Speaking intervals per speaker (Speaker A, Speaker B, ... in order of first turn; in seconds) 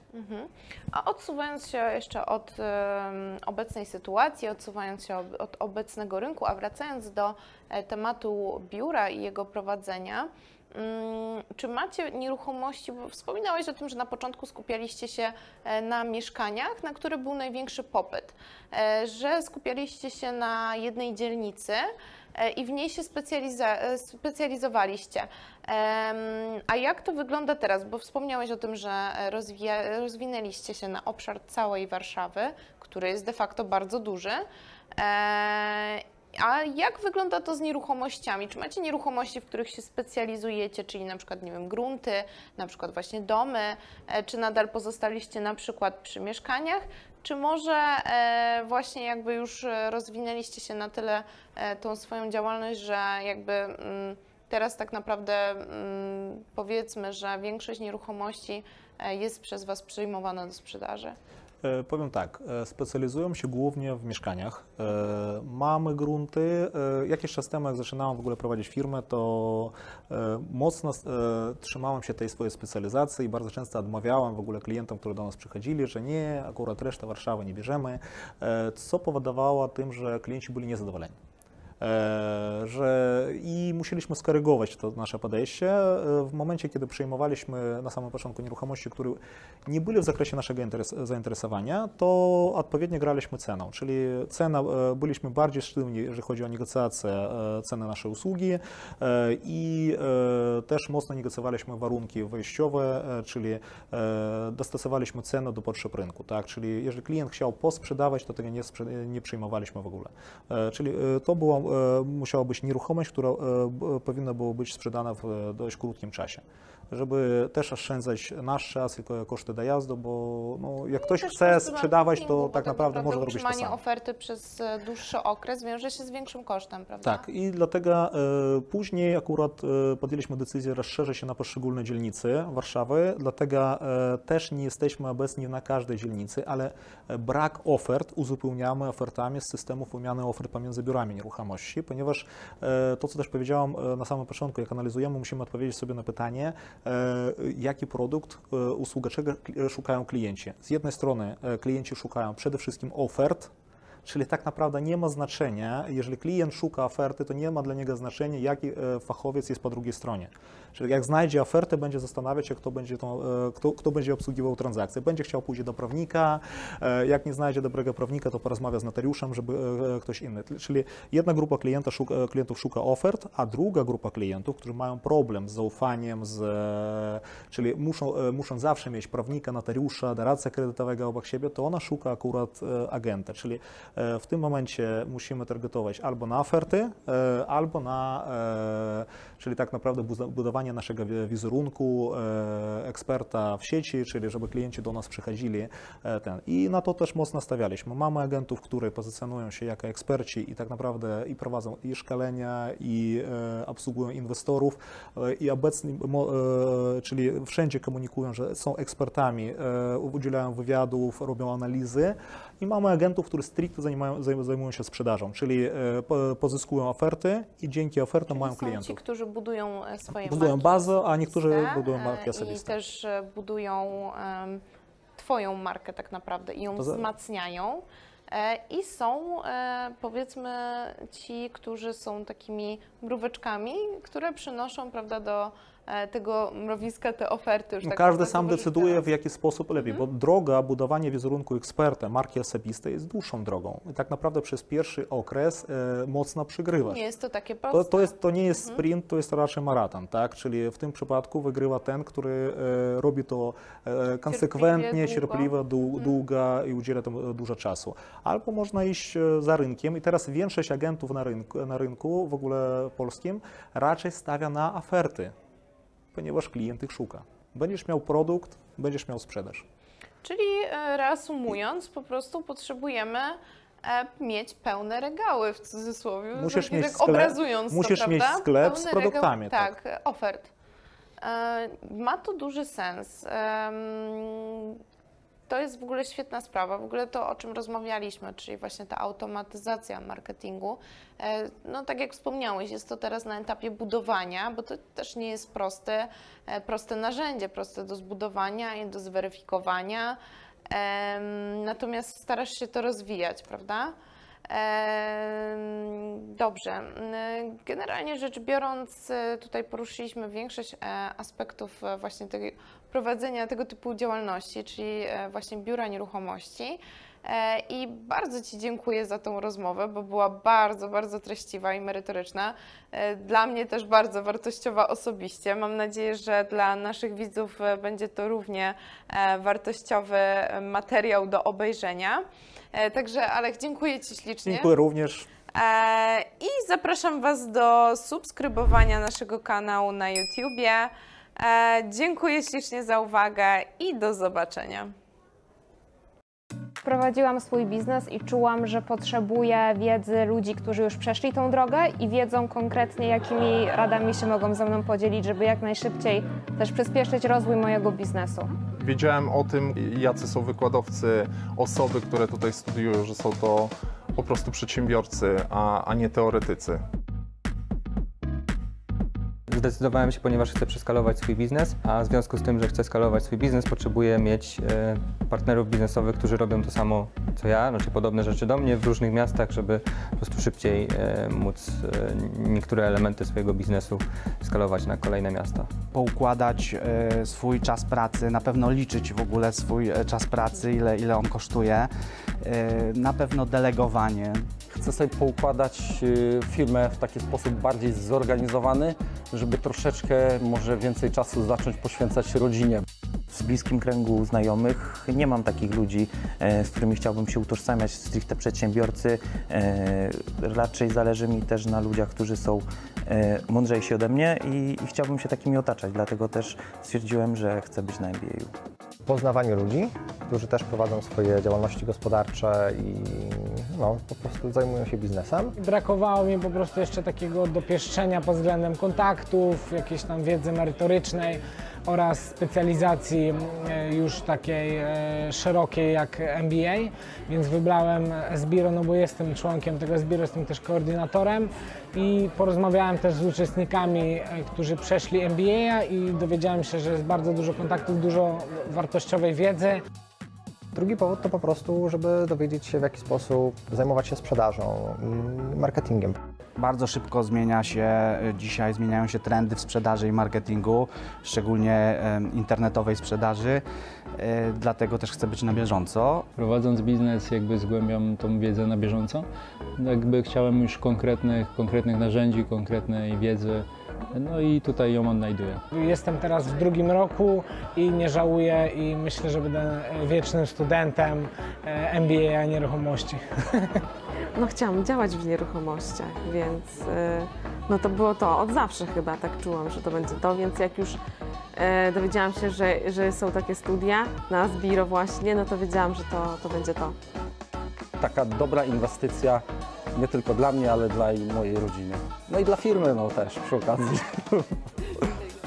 Speaker A: 0.1-34.5, 35.0-61.1, 121.0-127.2, 218.3-224.6, 225.2-239.0, 239.8-240.0, 246.8-248.8, 254.3-256.1, 270.2-280.5, 281.2-284.8, 285.5-303.9, 304.5-334.7, 335.5-344.9
Speaker B: 61.6-81.1, 81.8-123.8, 127.0-153.5, 154.0-219.0, 220.2-222.8, 226.8-227.0, 237.8-247.0, 247.7-265.3, 266.1-269.6, 276.4-279.7, 334.4-335.3
Speaker C: 346.8-358.5
Speaker D: 358.8-366.8
Speaker E: 369.5-385.7
Speaker F: 385.9-394.5, 456.6-463.6, 464.1-466.3
Speaker G: 394.7-402.8, 498.0-499.4, 499.9-504.4
Speaker H: 403.3-418.5
Speaker I: 419.1-425.5, 450.7-456.2
Speaker J: 425.6-449.8, 475.7-483.8
Speaker K: 466.3-475.6
Speaker L: 484.3-491.0, 491.5-496.9